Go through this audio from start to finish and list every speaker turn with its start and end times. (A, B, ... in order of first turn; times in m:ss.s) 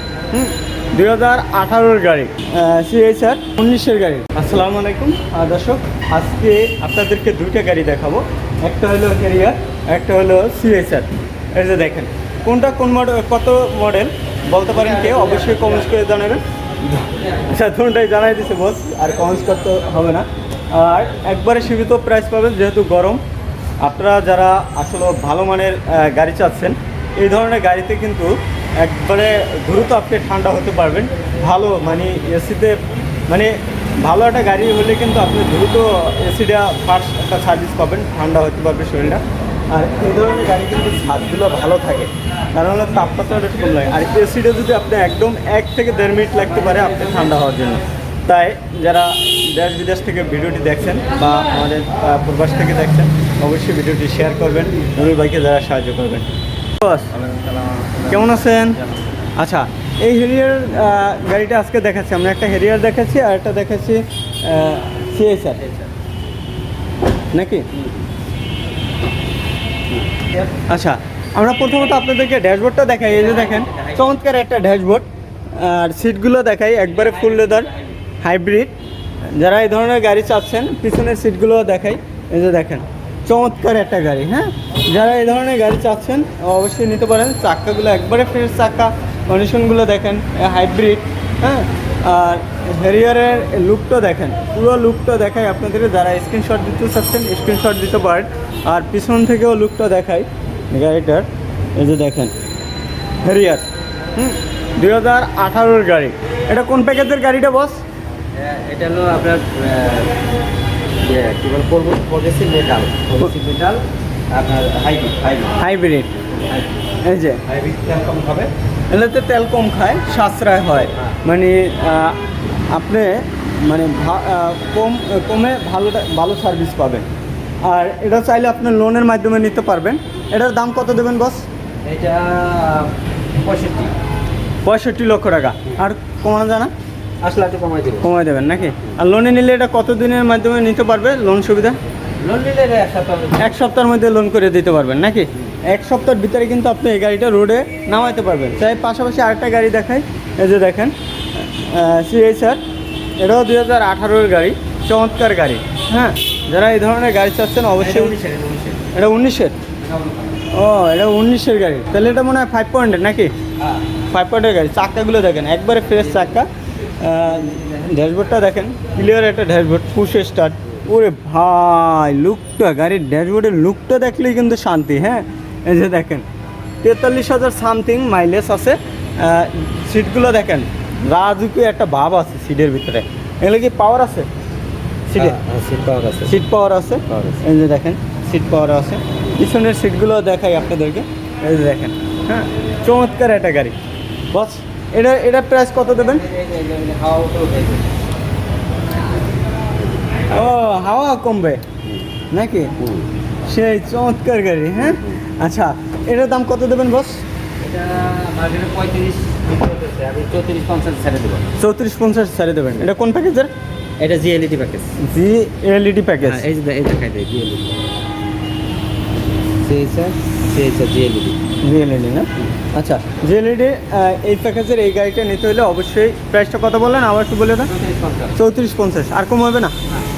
0:00.3-0:23.2 A
0:14.7-0:15.9 B
0:23.8-0:57.1 A
0:57.1-0:59.0 B
0:58.1-0:58.8 A
0:59.4-1:05.6 A
1:05.6-1:05.9 B
1:07.3-1:07.7 A
1:09.9-1:10.5 B
1:10.7-1:17.7 A
1:13.1-1:14.1 B
1:17.0-1:17.9 B
1:18.2-1:18.7 A
1:19.3-1:42.3 A
1:43.2-1:47.8 A
1:48.3-1:50.2 B
1:51.0-1:55.6 B
1:55.6-1:56.1 A
1:57.0-1:57.4 A
1:57.4-1:58.5 B
1:58.9-2:02.2 A
2:02.7-2:07.0 A
2:07.6-2:11.4 A
2:11.8-2:13.9 B
2:14.6-2:16.7 A
2:17.2-2:18.1 B
2:18.0-2:21.8 A
2:22.2-2:23.6 B
2:23.4-2:32.6 A
2:33.2-2:38.2 A
2:37.8-2:38.9 B
2:38.9-2:39.6 A
2:39.8-2:40.5 B
2:40.5-2:43.3 A
2:44.1-2:56.2 A
2:47.4-2:47.8 B
2:56.8-3:04.3 A
3:05.1-3:05.4 A
3:05.1-3:06.4 B
3:06.2-3:13.8 A
3:07.1-3:07.4 B
3:14.3-3:16.2 A
3:16.0-3:17.9 B
3:20.3-3:21.6 A
3:22.3-3:22.7 A
3:23.5-3:27.2 A
3:27.6-3:31.4 B
3:31.6-3:33.5 A
3:34.0-3:35.0 B
3:35.0-3:36.4 A
3:36.2-3:37.8 B
3:39.6-3:41.4 B
3:41.6-3:47.7 A
3:47.7-3:48.3 B
3:48.3-3:49.7 A